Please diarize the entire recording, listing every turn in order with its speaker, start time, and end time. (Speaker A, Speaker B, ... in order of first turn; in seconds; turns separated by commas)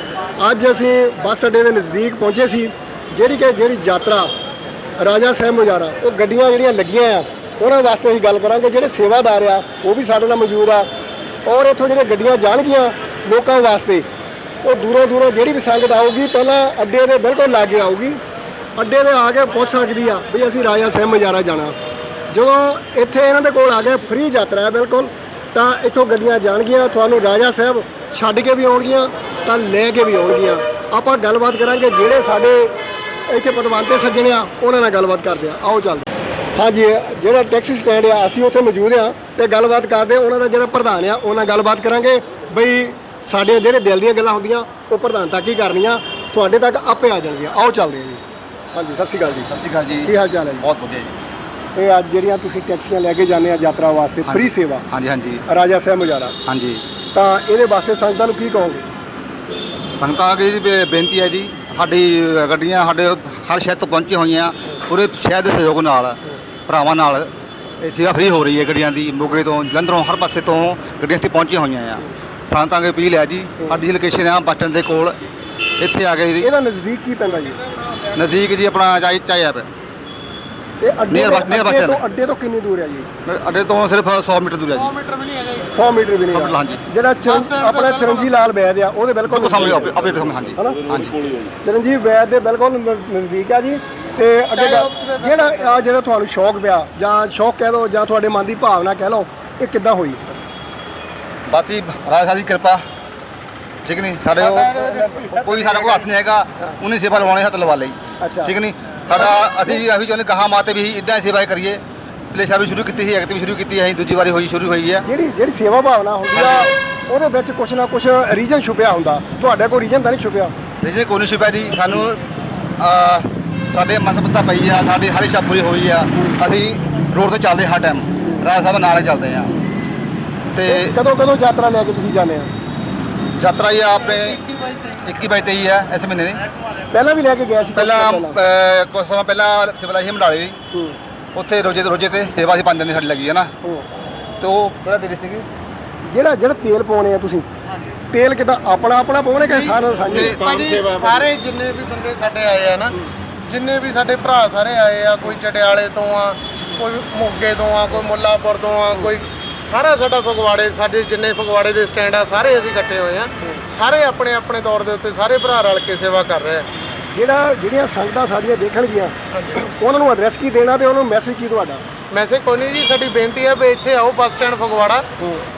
Speaker A: 0.4-4.3, Speaker A: 5.0-10.9, Speaker A: 11.4-14.1, Speaker A: 14.6-18.2, Speaker A: 18.8-21.7, Speaker A: 22.3-32.7, Speaker A: 33.3-48.2, Speaker A: 48.7-49.5, Speaker B: 49.5-51.1, Speaker A: 50.0-50.6, Speaker A: 51.8-54.9, Speaker B: 54.3-55.4, Speaker A: 55.5-56.4, Speaker B: 56.5-56.8, Speaker A: 57.1-58.8, Speaker B: 59.9-75.2, Speaker B: 75.8-76.5, Speaker A: 76.4-77.6, Speaker B: 78.2-79.7, Speaker A: 80.8-83.1, Speaker B: 81.1-82.0, Speaker B: 83.2-84.9, Speaker C: 84.7-85.7, Speaker A: 85.7-90.0, Speaker B: 86.3-86.8, Speaker C: 87.2-88.3, Speaker B: 89.3-91.2, Speaker A: 91.6-100.2, Speaker C: 94.5-95.8, Speaker B: 101.5-102.8, Speaker B: 103.8-111.8, Speaker C: 104.3-106.1, Speaker A: 108.2-108.5, Speaker B: 112.3-115.0, Speaker A: 115.0-120.5, Speaker B: 116.3-116.7, Speaker B: 120.8-122.2, Speaker B: 122.8-129.5, Speaker A: 126.1-126.4, Speaker A: 128.2-128.4, Speaker B: 130.5-130.9, Speaker A: 130.7-132.5, Speaker B: 133.4-134.4, Speaker C: 133.9-135.0, Speaker B: 135.0-136.4, Speaker A: 136.9-138.4, Speaker B: 137.8-140.6, Speaker B: 141.3-143.5, Speaker B: 144.4-145.5, Speaker A: 146.1-147.4, Speaker A: 148.1-150.4, Speaker C: 149.6-152.9, Speaker B: 150.1-150.4, Speaker C: 153.4-166.7, Speaker A: 167.1-171.8, Speaker C: 169.3-169.6, Speaker C: 172.1-175.1